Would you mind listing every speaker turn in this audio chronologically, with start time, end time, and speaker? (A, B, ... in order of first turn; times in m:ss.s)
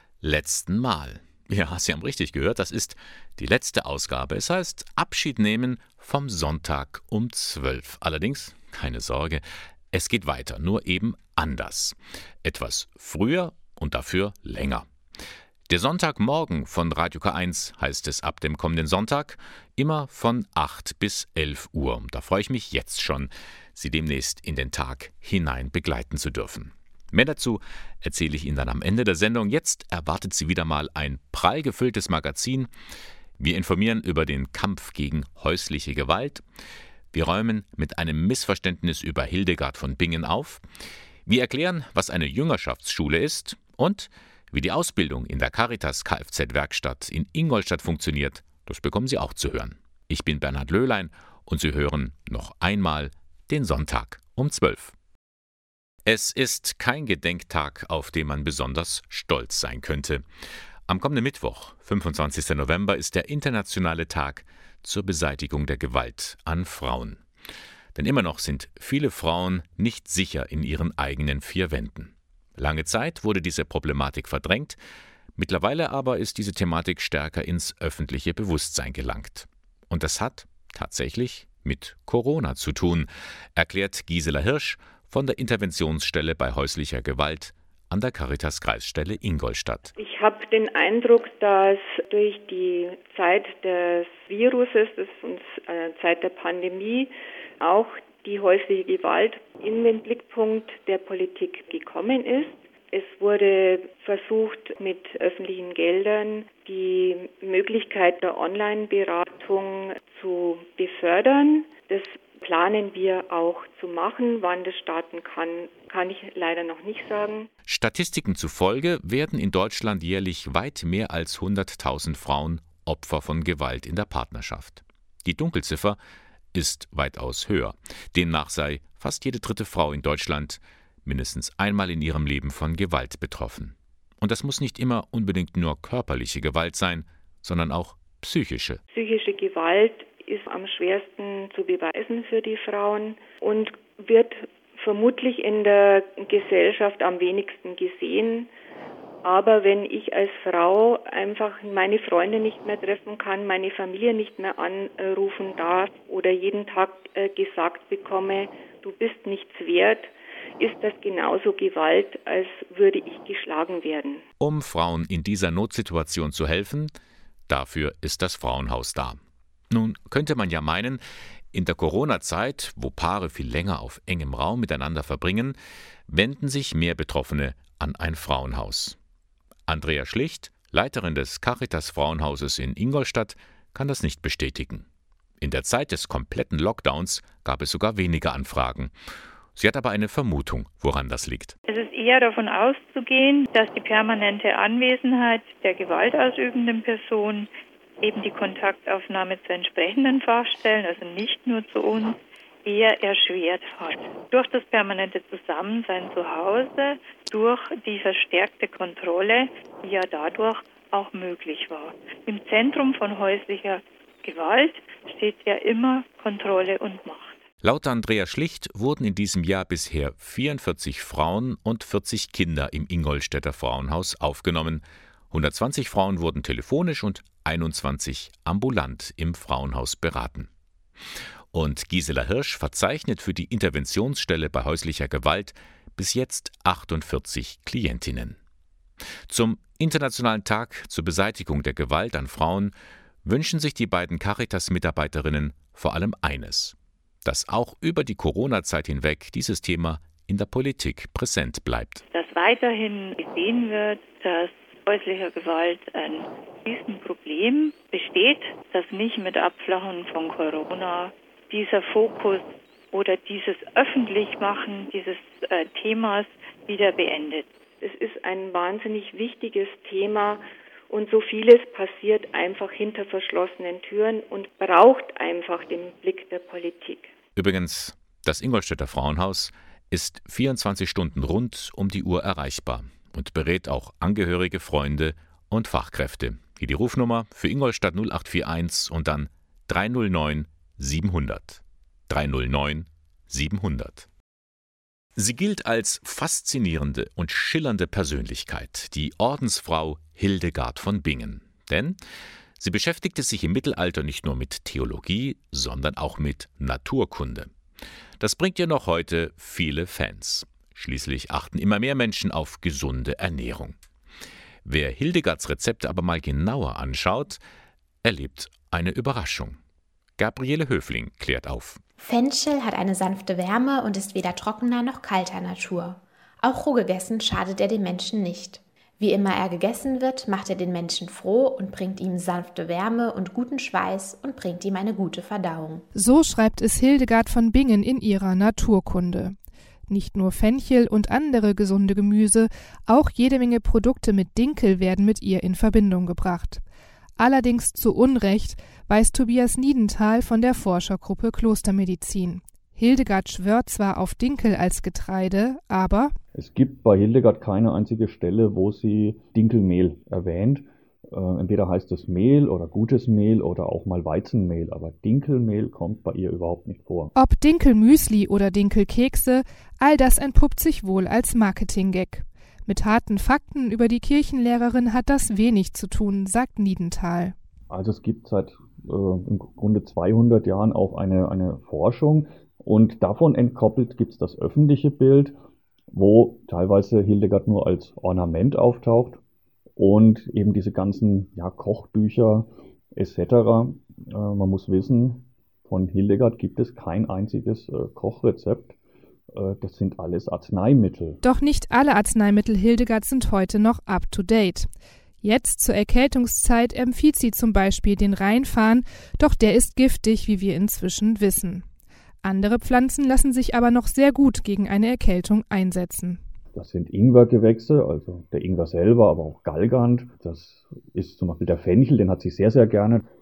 0:00.2-0:14.8 A
0:15.7-0:32.7 A
0:33.4-0:36.4 A
0:37.1-0:40.6 A
0:41.2-0:54.9 A
0:56.0-1:00.2 A
1:00.9-1:07.2 A
1:07.9-1:14.8 A
1:15.4-1:29.9 A
1:30.0-1:57.5 B
1:57.7-2:06.0 A
2:06.5-2:18.8 A
2:18.9-2:28.5 B
2:29.2-2:44.2 B
2:44.4-2:46.9 A
2:47.5-2:49.2 A
2:49.7-2:51.0 A
2:51.5-2:55.6 A
2:56.1-2:59.0 A
2:59.7-3:04.8 A
3:05.4-3:08.9 A
3:09.6-3:11.5 A
3:11.7-3:17.5 C
3:18.0-3:22.1 C
3:22.7-3:37.3 C
3:37.6-3:50.5 A
3:51.5-3:58.4 A
3:59.3-4:12.0 A
4:12.1-4:22.4 C
4:22.9-4:27.4 C
4:27.8-4:37.1 B
4:37.4-4:54.1 A
4:55.2-5:02.0 A
5:02.6-5:07.5 A
5:08.2-5:13.8 A
5:14.6-5:17.4 A
5:18.0-5:19.6 A
5:20.2-5:21.8 A
5:22.0-5:35.8 D
5:35.9-5:39.3 E
5:39.9-5:46.6 E
5:47.2-5:56.1 E
5:56.3-6:07.1 F
6:07.1-6:17.3 E
6:17.7-6:25.3 F
6:25.9-6:29.2 F
6:29.8-6:38.7 F
6:39.3-6:41.2 F
6:41.2-6:44.7 E
6:45.2-6:51.6 E
6:52.2-6:56.2 E
6:56.5-7:03.0 F